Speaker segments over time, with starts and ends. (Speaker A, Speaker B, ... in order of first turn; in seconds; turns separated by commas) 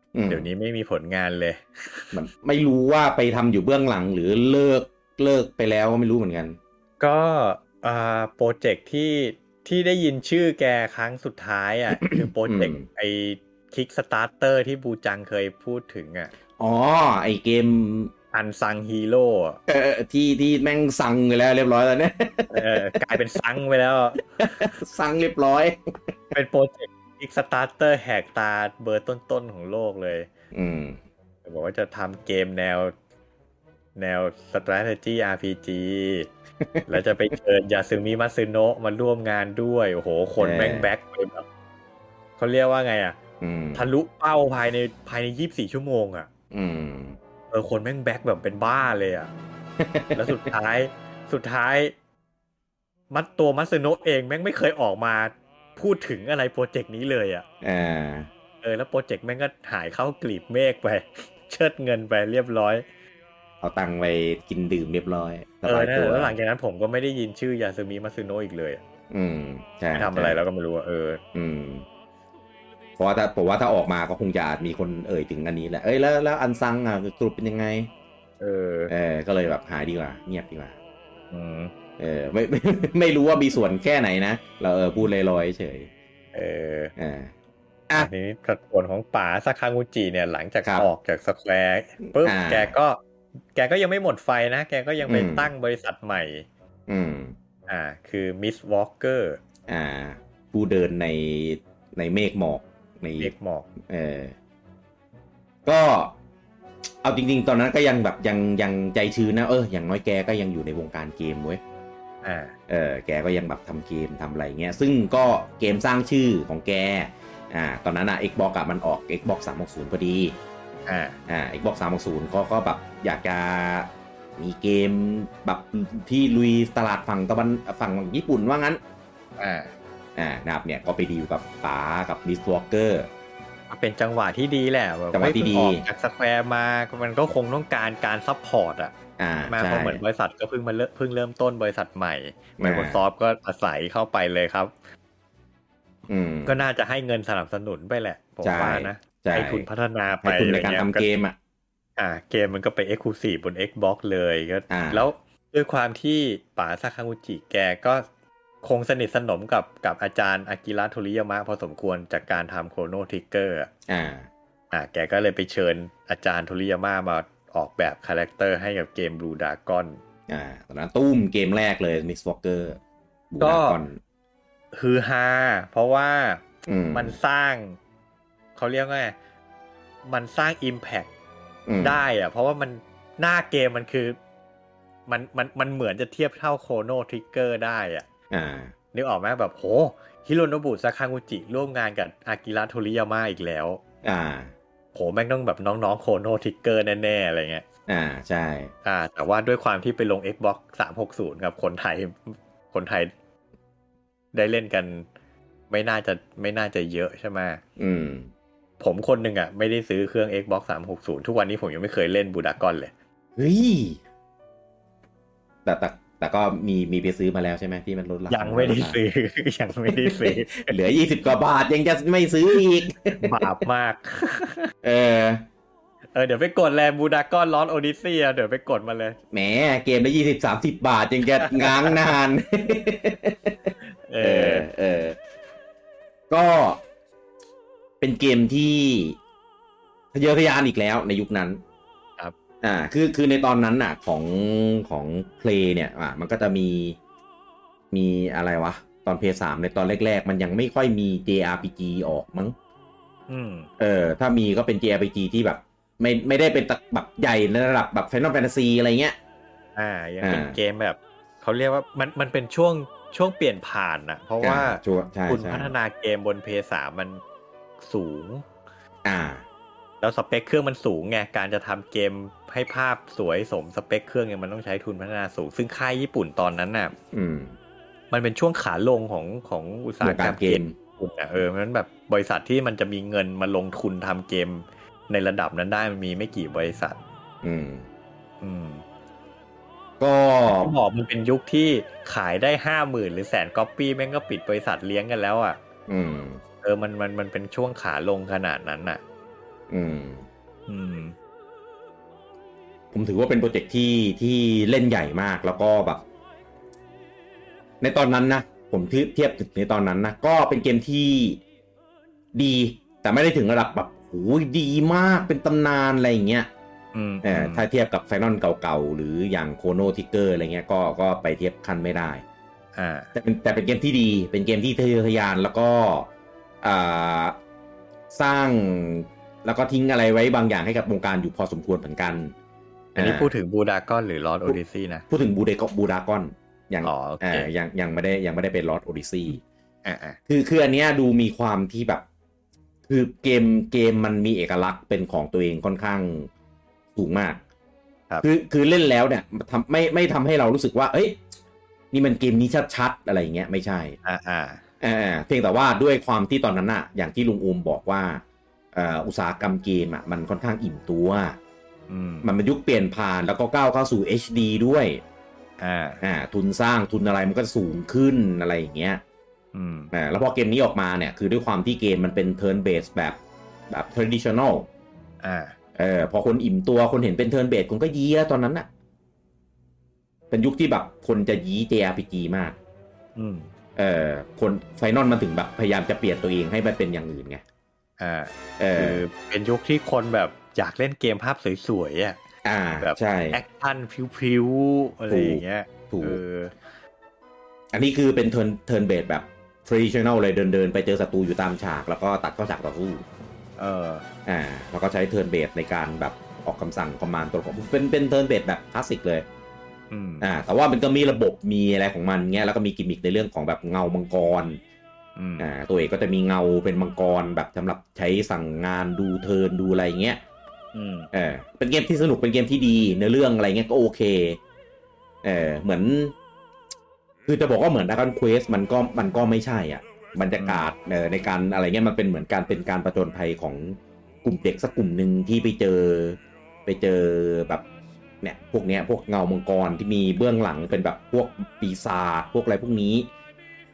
Speaker A: 0.1-0.5, Speaker B: 0.3-2.1, Speaker A: 2.1-6.6, Speaker B: 7.0-16.3, Speaker A: 11.9-12.9, Speaker A: 16.6-18.1, Speaker B: 18.3-19.6, Speaker A: 19.7-23.2, Speaker B: 22.5-24.7, Speaker A: 24.4-26.3, Speaker B: 26.3-30.3, Speaker A: 30.5-31.0, Speaker B: 31.4-32.9, Speaker B: 34.0-36.3, Speaker A: 36.6-37.0, Speaker B: 36.9-41.5, Speaker A: 40.4-40.9, Speaker B: 42.4-43.2, Speaker A: 43.4-43.9, Speaker B: 43.8-46.3, Speaker A: 46.5-47.2, Speaker B: 47.5-49.3, Speaker A: 49.8-50.5, Speaker B: 50.1-51.9, Speaker B: 53.1-57.5, Speaker A: 57.6-58.3, Speaker B: 58.6-62.9, Speaker A: 63.6-66.4, Speaker B: 65.7-68.8, Speaker A: 69.1-70.4, Speaker B: 70.0-71.2, Speaker A: 71.3-71.8, Speaker A: 73.0-77.9, Speaker B: 78.4-78.9, Speaker A: 78.9-80.8, Speaker B: 81.3-81.7, Speaker A: 82.0-85.9, Speaker B: 86.3-86.9, Speaker A: 87.0-87.3, Speaker B: 88.0-93.0, Speaker A: 90.6-90.9, Speaker A: 92.1-92.7, Speaker B: 93.5-96.5, Speaker A: 95.0-95.5, Speaker A: 96.9-97.4, Speaker B: 97.7-99.4, Speaker A: 99.7-103.3, Speaker B: 103.2-103.7, Speaker A: 103.9-104.3, Speaker A: 105.7-106.1, Speaker A: 107.0-111.6, Speaker B: 112.2-112.5, Speaker A: 112.7-120.4, Speaker B: 120.9-121.2, Speaker A: 121.3-128.8, Speaker B: 129.4-129.7, Speaker A: 130.2-133.1, Speaker B: 133.7-138.9, Speaker A: 135.1-135.8, Speaker A: 139.2-140.0, Speaker B: 139.5-144.7, Speaker A: 142.6-143.0, Speaker A: 146.1-146.6, Speaker B: 146.5-151.1, Speaker A: 148.4-149.7, Speaker A: 150.2-151.4, Speaker B: 152.0-158.1, Speaker A: 154.7-155.1, Speaker B: 158.6-163.7, Speaker A: 163.9-164.3, Speaker B: 164.7-170.0, Speaker A: 170.3-172.8, Speaker A: 173.3-174.0, Speaker B: 173.4-173.8, Speaker B: 174.7-177.8, Speaker A: 176.7-177.2, Speaker B: 178.6-179.2, Speaker B: 180.0-181.1, Speaker A: 181.7-182.0, Speaker B: 181.8-184.2, Speaker B: 185.1-188.1, Speaker A: 188.3-188.7, Speaker B: 188.9-193.8, Speaker A: 194.0-194.5, Speaker B: 194.9-197.7, Speaker A: 197.9-198.7, Speaker B: 198.8-203.1, Speaker B: 204.3-205.1, Speaker B: 205.7-207.6, Speaker A: 207.8-208.3, Speaker B: 208.8-212.9, Speaker A: 213.4-214.0, Speaker A: 215.7-219.0, Speaker B: 218.3-220.8, Speaker A: 219.9-223.6, Speaker B: 223.2-224.7, Speaker A: 224.8-225.4, Speaker B: 226.1-229.2, Speaker A: 229.3-235.2, Speaker B: 231.4-232.0, Speaker B: 233.8-234.7, Speaker A: 236.3-236.8, Speaker A: 238.0-239.2, Speaker A: 240.1-241.6, Speaker A: 242.6-247.0, Speaker A: 247.9-252.6, Speaker B: 253.3-253.7, Speaker A: 253.8-259.2, Speaker B: 259.8-267.2, Speaker A: 260.2-260.6, Speaker A: 264.4-265.7, Speaker B: 267.8-268.5, Speaker A: 269.1-269.4, Speaker B: 270.0-276.9, Speaker A: 277.1-277.6, Speaker B: 278.1-287.0, Speaker A: 280.0-280.8, Speaker A: 287.4-287.9, Speaker B: 288.4-288.8, Speaker A: 290.0-290.7, Speaker B: 290.5-295.6, Speaker A: 295.9-296.4, Speaker B: 296.6-299.0, Speaker A: 299.7-300.3, Speaker B: 300.7-301.2, Speaker A: 302.9-306.0, Speaker A: 307.8-311.4, Speaker A: 312.3-316.5, Speaker B: 316.9-317.6, Speaker A: 317.2-322.2, Speaker B: 322.8-323.1, Speaker A: 323.1-326.1, Speaker A: 326.6-327.4, Speaker A: 328.1-332.3, Speaker A: 332.9-333.3, Speaker B: 333.0-335.1, Speaker A: 334.5-339.4, Speaker B: 336.8-337.5, Speaker B: 339.9-340.2, Speaker A: 340.3-342.0, Speaker A: 342.9-346.3, Speaker A: 346.9-347.4, Speaker A: 348.2-351.2, Speaker A: 351.9-354.0, Speaker B: 354.0-354.6, Speaker A: 354.8-358.2, Speaker A: 358.7-361.4, Speaker B: 361.9-362.3, Speaker A: 362.2-365.0, Speaker B: 365.6-366.0, Speaker A: 366.0-369.0, Speaker B: 369.5-369.9, Speaker A: 369.9-373.2, Speaker A: 373.7-374.7, Speaker B: 375.2-375.6, Speaker A: 375.8-378.7, Speaker A: 380.3-382.6, Speaker B: 383.2-383.5, Speaker A: 383.8-387.4, Speaker B: 388.0-392.2, Speaker A: 388.6-389.0, Speaker A: 392.4-393.4, Speaker B: 392.8-396.6, Speaker A: 395.1-396.2, Speaker A: 397.7-403.1, Speaker B: 403.6-404.1, Speaker A: 404.3-409.2, Speaker B: 409.9-410.3, Speaker A: 410.2-414.6, Speaker B: 415.2-415.5, Speaker A: 415.4-420.2, Speaker B: 420.7-421.1, Speaker A: 421.1-424.4, Speaker A: 425.2-426.1, Speaker A: 427.3-437.6, Speaker B: 430.4-430.7, Speaker A: 438.2-443.1